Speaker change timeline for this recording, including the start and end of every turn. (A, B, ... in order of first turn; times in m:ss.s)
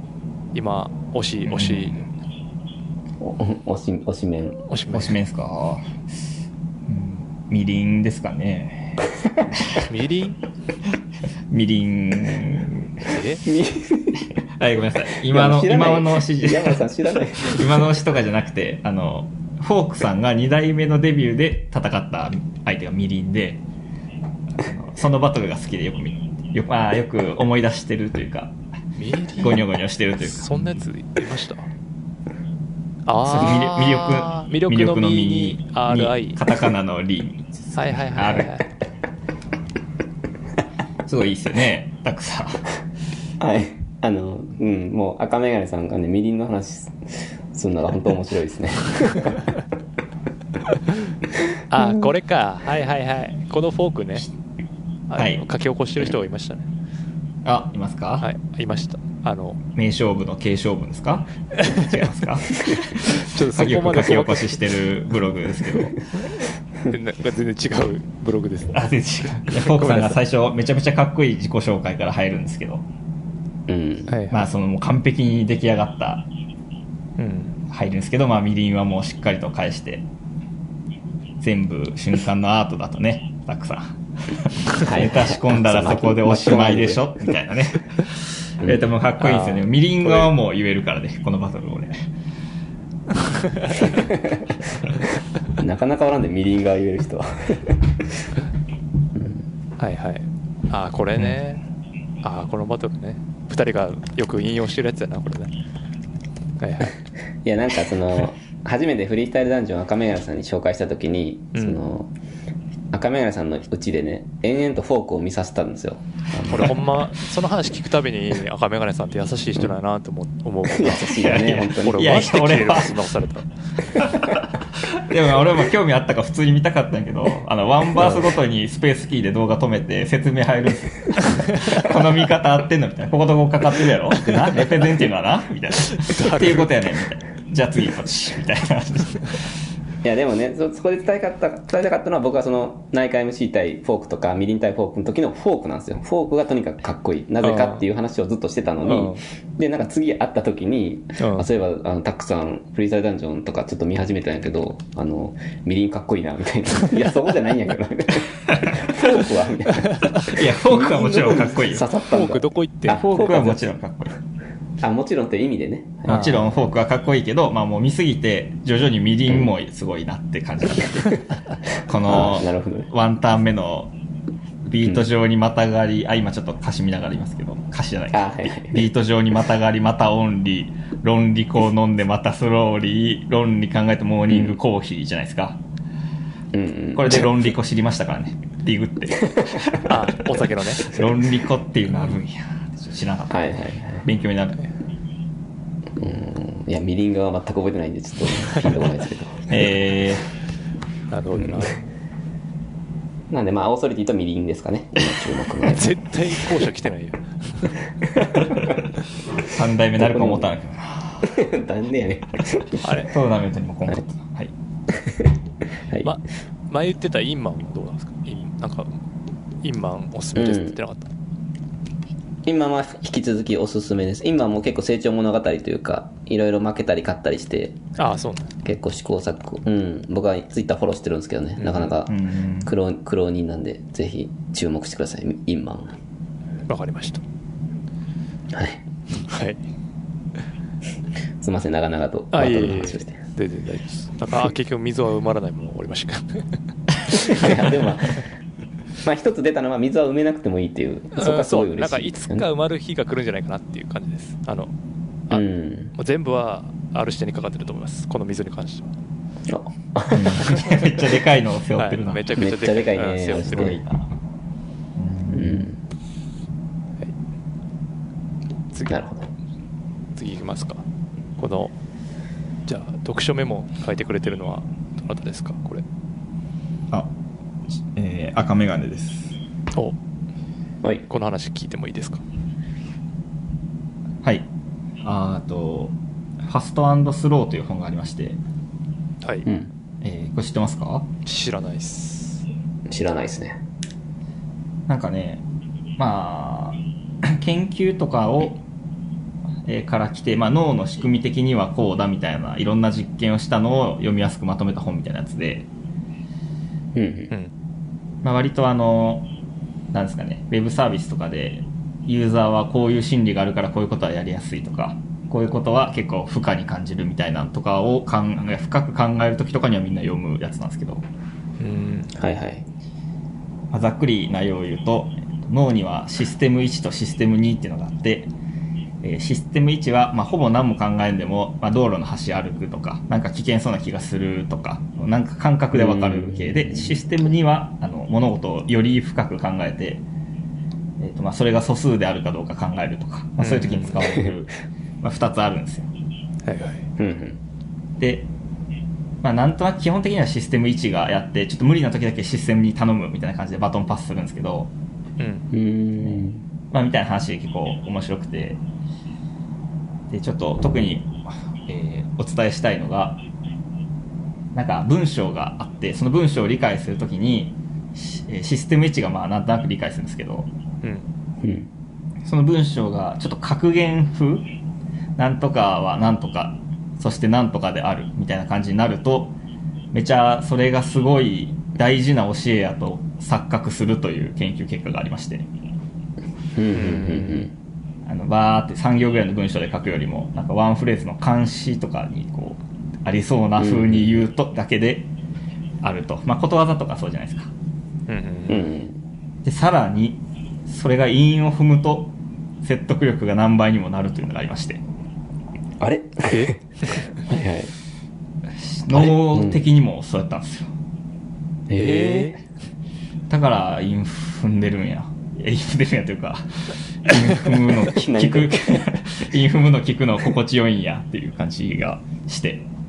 0:00.5-0:02.1 A
0:01.5-0:02.1 B
0:03.2-0:04.6 C
0:04.7-0:05.2 A
0:04.9-0:05.9 B
0:06.9-0:09.0 B
0:09.9-0:10.4 A
0:11.5-0:13.0 B
0:13.0-0:13.4 A
0:13.4-0:14.2 C
0:14.6-0:16.8 B
0:15.2-0:17.9 C
0:17.4-0:23.6 B
0:24.6-0:28.6 B
0:29.0-0:29.7 A
0:29.4-0:30.8 B
0:30.2-0:31.7 A
0:33.1-0:36.4 A
0:33.2-0:38.5 B
0:37.7-0:38.7 A
0:41.1-0:42.7 B
0:43.4-0:49.4 C
0:51.7-0:54.3 A
0:55.1-0:56.7 A
0:55.2-0:55.4 B
0:57.4-0:58.3 B
0:58.2-0:59.6 A
0:59.8-1:06.0 B
1:01.6-1:01.9 A
1:03.1-1:04.6 A
1:06.9-1:08.8 A
1:08.7-1:12.8 B
1:09.5-1:10.2 A
1:13.7-1:14.1 C
1:14.1-1:14.5 A
1:14.3-1:16.3 B
1:17.2-1:17.6 A
1:17.7-1:20.1 B
1:21.4-1:32.1 B
1:24.8-1:27.3 C
1:29.2-1:30.3 A
1:33.4-1:33.9 A
1:35.6-1:38.1 C
1:39.2-1:39.4 C
1:39.8-1:41.6 A
1:42.2-1:45.5 A
1:46.6-1:47.0 A
1:47.4-1:52.1 C
1:51.5-1:51.8 A
1:52.9-1:56.9 C
1:56.5-2:03.5 A
2:00.6-2:02.1 C
2:01.2-2:03.1 B
2:04.1-2:04.4 B
2:04.9-2:19.5 B
2:08.0-2:08.4 C
2:11.2-2:11.8 A
2:15.9-2:16.7 A
2:20.0-2:43.6 C
2:27.4-2:27.8 A
2:28.8-2:29.2 A
2:31.2-2:31.5 A
2:38.5-2:38.8 B
2:39.8-2:40.2 A
2:40.2-2:41.9 B
2:42.1-2:43.5 A
2:43.1-2:44.2 B
2:44.8-2:46.5 C
2:46.1-2:51.2 B
2:46.1-2:46.4 A
2:51.8-2:53.9 B
2:52.1-2:52.9 C
2:54.7-3:05.6 B
2:58.1-2:58.8 C
3:04.3-3:04.6 C
3:06.5-3:07.5 C
3:06.9-3:10.0 B
3:09.8-3:11.0 A
3:10.8-3:14.7 B
3:13.3-3:14.0 C
3:16.0-3:19.6 C
3:19.5-3:20.3 B
3:21.1-3:21.8 A
3:23.3-3:26.0 C
3:25.6-3:27.8 A
3:28.1-3:28.6 C
3:28.5-3:28.8 B
3:29.4-3:31.4 B
3:30.0-3:30.5 C
3:31.2-3:32.8 C
3:32.8-3:33.1 A
3:33.0-3:34.5 B
3:34.9-3:35.4 C
3:35.9-3:36.1 C
3:36.0-3:38.9 A
3:39.6-3:41.1 A
3:40.4-3:40.8 C
3:42.4-3:47.8 C
3:48.0-3:48.5 A
3:48.6-3:56.0 C
3:51.6-3:52.0 A
3:52.1-3:52.7 B
3:56.7-3:57.2 A
3:58.5-3:58.8 C
3:59.2-3:59.6 A
4:01.4-4:03.2 C
4:02.3-4:06.6 A
4:07.2-4:07.5 A
4:07.2-4:08.2 C
4:09.0-4:12.5 C
4:11.1-4:14.7 A
4:15.3-4:18.9 A
4:15.3-4:15.9 C
4:19.5-4:20.6 C
4:20.1-4:22.2 B
4:21.8-4:23.8 A
4:22.4-4:23.8 C
4:23.4-4:24.1 B
4:25.0-4:25.7 B
4:25.3-4:25.8 C
4:28.7-4:29.0 A
4:28.9-4:29.3 C
4:30.2-4:30.8 A
4:31.4-4:31.7 A
4:32.7-4:35.8 A
4:37.9-4:39.4 B
4:41.1-4:42.2 A
4:45.0-4:48.4 B
4:49.2-4:49.5 A
4:49.5-4:49.7 C
4:50.0-4:51.1 B
4:51.2-4:52.4 A
4:52.9-4:53.6 C
4:54.9-4:55.4 B
4:56.0-4:58.6 B
4:59.6-5:05.7 B
5:07.0-5:07.3 C
5:08.2-5:09.3 B
5:09.9-5:21.0 B
5:21.6-5:22.1 A
5:22.2-5:22.7 C
5:23.7-5:28.3 B
5:29.0-5:40.0 B
5:35.7-5:37.0 C
5:41.0-5:45.9 B
5:43.4-5:44.2 A
5:44.0-5:44.3 C
5:46.4-5:46.9 A
5:47.0-5:47.4 C
5:48.0-5:48.3 B
5:49.2-5:54.7 B
5:55.2-5:55.5 A
5:55.5-5:56.4 C
5:56.0-5:58.6 B
6:00.1-6:03.2 B
6:04.5-6:10.5 B
6:11.4-6:11.7 C
6:12.2-6:14.5 B
6:15.2-6:19.4 B
6:19.9-6:25.5 B
6:26.6-6:27.5 C
6:26.7-6:27.5 A
6:28.1-6:35.1 B
6:33.6-6:34.3 C
6:35.8-6:37.5 B
6:38.1-6:38.6 A
6:38.5-6:39.0 C
6:39.4-6:44.8 B
6:45.8-6:47.7 C
6:46.2-6:47.0 A
6:48.8-6:50.7 B
6:48.9-6:49.7 C
6:51.7-6:52.3 C
6:51.7-6:52.4 A
6:53.3-7:02.7 B
6:57.9-6:58.9 C